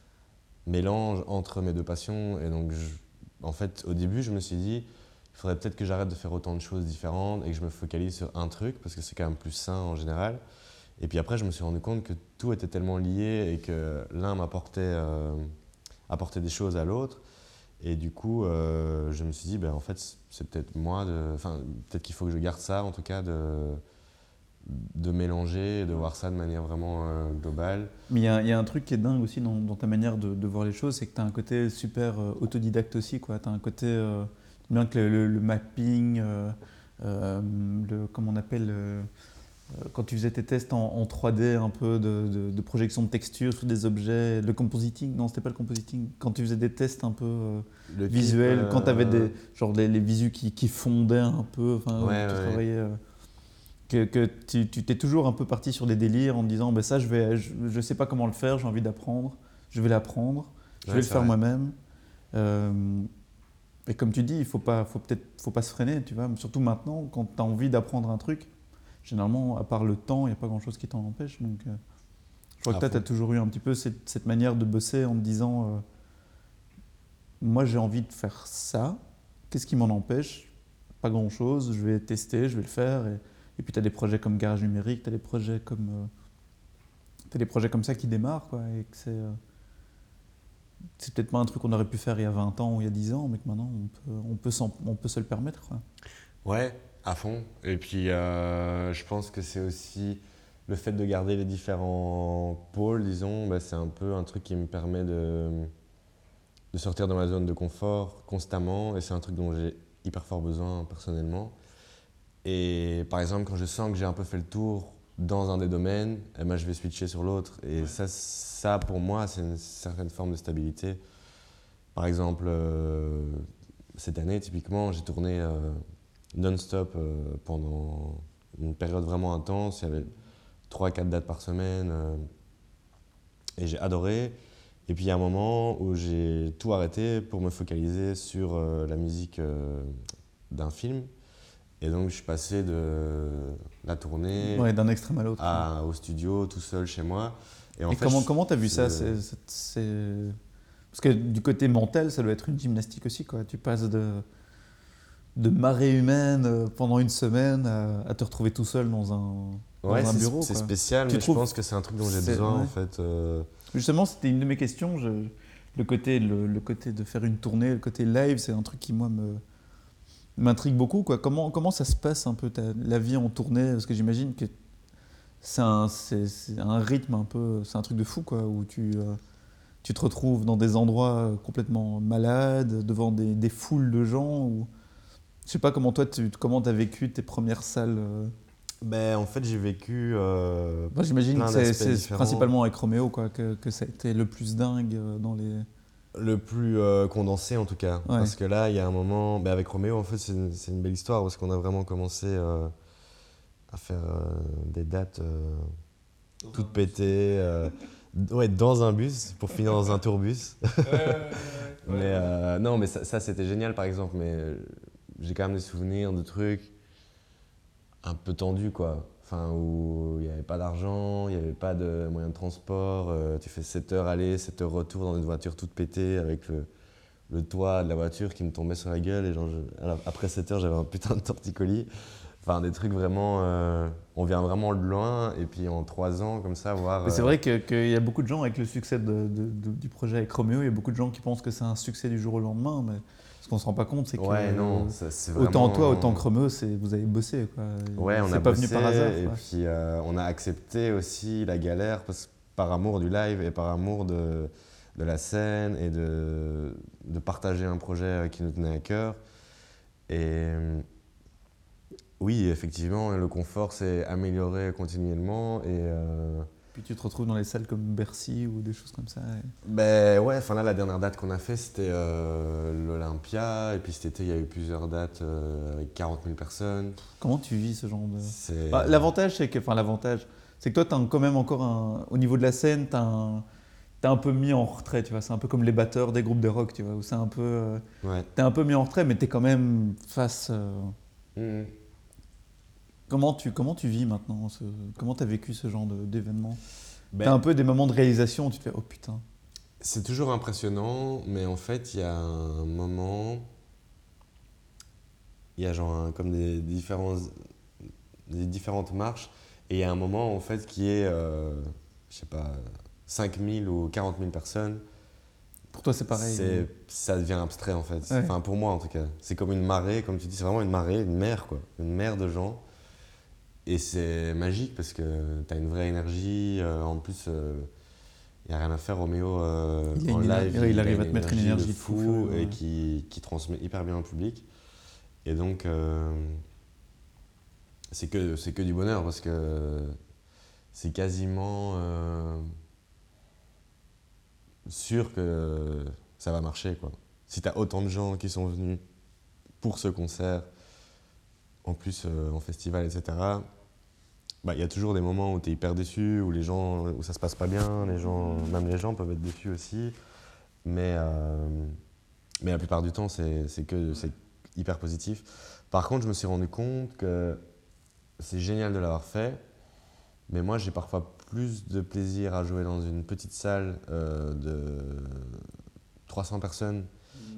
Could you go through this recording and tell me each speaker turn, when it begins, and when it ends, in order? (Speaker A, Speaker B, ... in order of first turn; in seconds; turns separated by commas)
Speaker A: 0.7-10.4, Speaker A: 11.0-15.5, Speaker A: 16.1-17.2, Speaker A: 17.8-23.8, Speaker A: 24.6-27.9, Speaker B: 28.1-39.1, Speaker B: 39.7-53.0, Speaker A: 47.9-49.3, Speaker A: 52.0-52.6, Speaker B: 53.9-61.7, Speaker A: 60.8-61.3, Speaker B: 62.3-63.1, Speaker B: 63.9-68.5, Speaker B: 69.0-71.8, Speaker B: 72.6-75.8, Speaker A: 72.7-73.0, Speaker B: 77.4-79.0, Speaker B: 79.5-80.5, Speaker B: 81.0-86.1, Speaker B: 87.3-89.4, Speaker B: 91.0-95.8, Speaker A: 96.4-105.7, Speaker A: 106.7-111.5, Speaker A: 112.4-121.0, Speaker A: 121.9-125.8, Speaker A: 126.3-130.1, Speaker A: 130.7-132.2, Speaker A: 133.6-139.9, Speaker A: 140.5-141.1, Speaker A: 141.8-144.7, Speaker B: 144.4-145.6, Speaker A: 145.4-149.2, Speaker B: 147.9-150.3, Speaker B: 150.9-154.2, Speaker B: 155.4-161.4, Speaker A: 159.8-163.5, Speaker B: 162.0-162.7, Speaker B: 163.7-169.4, Speaker B: 170.4-174.5, Speaker B: 175.4-179.2, Speaker B: 179.8-184.7, Speaker B: 185.4-188.3, Speaker A: 188.8-192.5, Speaker B: 190.9-195.7, Speaker A: 196.1-202.7, Speaker B: 198.1-198.3, Speaker A: 203.7-205.7, Speaker B: 206.4-206.9, Speaker A: 206.5-216.7, Speaker B: 210.9-212.0, Speaker A: 218.0-226.7, Speaker A: 227.3-231.9, Speaker A: 232.4-237.4, Speaker B: 237.0-249.4, Speaker A: 244.2-246.2, Speaker A: 248.0-259.2, Speaker A: 260.1-260.9, Speaker A: 262.2-266.5, Speaker B: 266.7-269.5, Speaker A: 269.6-277.0, Speaker B: 277.2-283.4, Speaker A: 278.2-279.0, Speaker B: 284.0-287.8, Speaker A: 288.0-288.3, Speaker B: 288.3-290.9, Speaker A: 291.4-291.7, Speaker B: 293.1-296.6, Speaker A: 297.1-297.4, Speaker B: 297.2-299.2, Speaker A: 299.8-303.5, Speaker A: 305.6-307.3, Speaker A: 308.3-314.8, Speaker B: 315.7-316.7, Speaker A: 316.1-322.6, Speaker B: 318.1-318.3, Speaker A: 323.6-327.7, Speaker A: 328.4-334.5, Speaker B: 329.9-332.6, Speaker A: 335.2-336.4, Speaker A: 337.9-340.0, Speaker A: 340.7-342.5, Speaker A: 344.6-348.8, Speaker A: 349.6-350.4, Speaker A: 351.6-353.5, Speaker A: 354.4-359.9, Speaker A: 360.6-361.8, Speaker A: 362.4-367.4, Speaker A: 368.2-369.4, Speaker A: 370.3-375.5, Speaker A: 376.1-376.9